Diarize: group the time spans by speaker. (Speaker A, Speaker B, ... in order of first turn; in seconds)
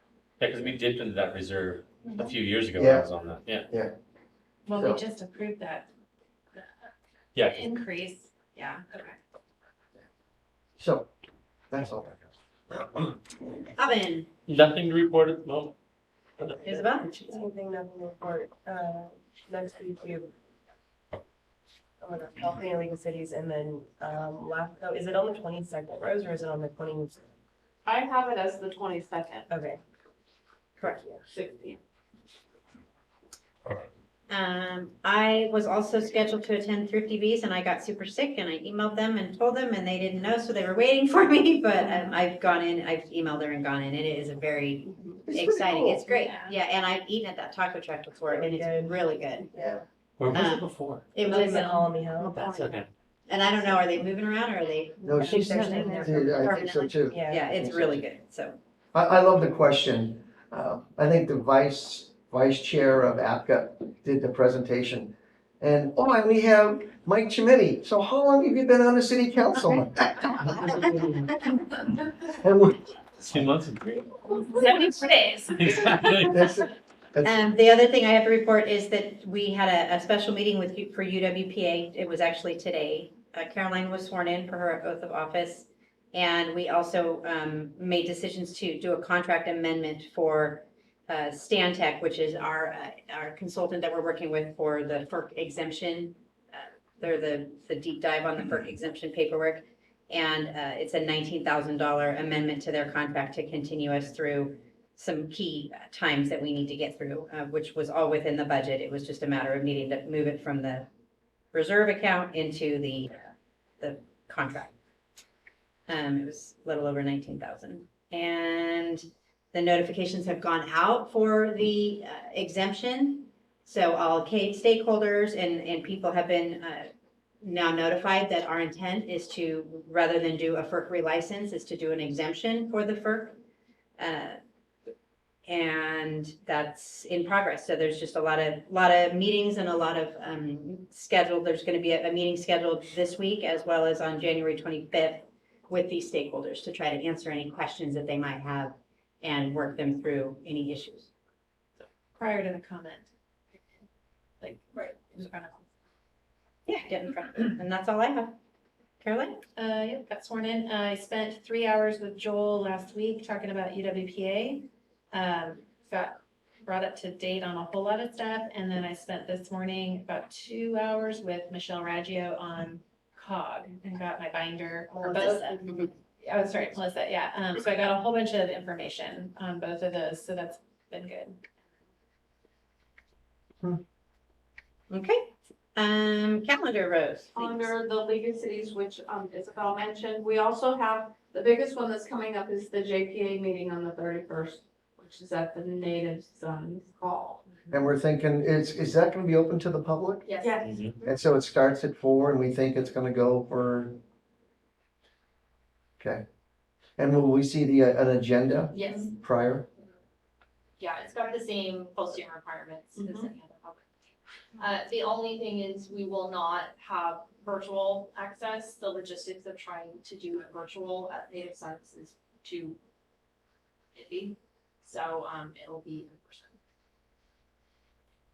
Speaker A: 0.4-3.7, 7.3-7.8, 14.5-15.8, 16.4-16.7, 50.2-51.1, 52.2-52.9, 73.2-74.2, 75.5-76.5, 200.6-200.9
Speaker B: 2.8-3.1, 4.7-5.0, 10.8-11.1, 11.7-13.2, 45.3-46.0, 55.0-58.0, 58.9-70.9, 72.3-73.5, 76.3-77.5, 197.7-200.3, 201.0-204.0, 206.0-206.2, 207.0-209.7
Speaker C: 4.7-5.9, 7.5-9.2, 46.1-46.5, 51.3-51.7, 52.5-52.8, 74.3-76.3, 152.1-153.1, 154.4-155.7, 159.6-175.6, 176.2-181.4
Speaker D: 13.8-14.3, 16.6-17.2, 30.8-31.0, 34.3-49.5, 50.3-52.0, 53.3-58.6, 77.2-110.9, 111.5-113.2, 113.8-114.7, 115.9-126.9, 127.4-133.4, 134.0-134.4, 135.5-151.1, 156.7-158.4, 159.0-159.4, 184.9-187.7
Speaker E: 16.7-20.3, 22.0-27.2, 29.5-29.8, 30.8-31.2, 48.3-49.8, 51.2-52.4, 55.1-57.5, 70.5-71.3, 174.9-175.6
Speaker F: 27.9-29.5, 31.3-31.8, 187.4-197.4, 200.4-200.7
Speaker G: 200.2-200.6, 208.7-209.1, 210.8-213.9, 214.6-222.8, 223.9-226.6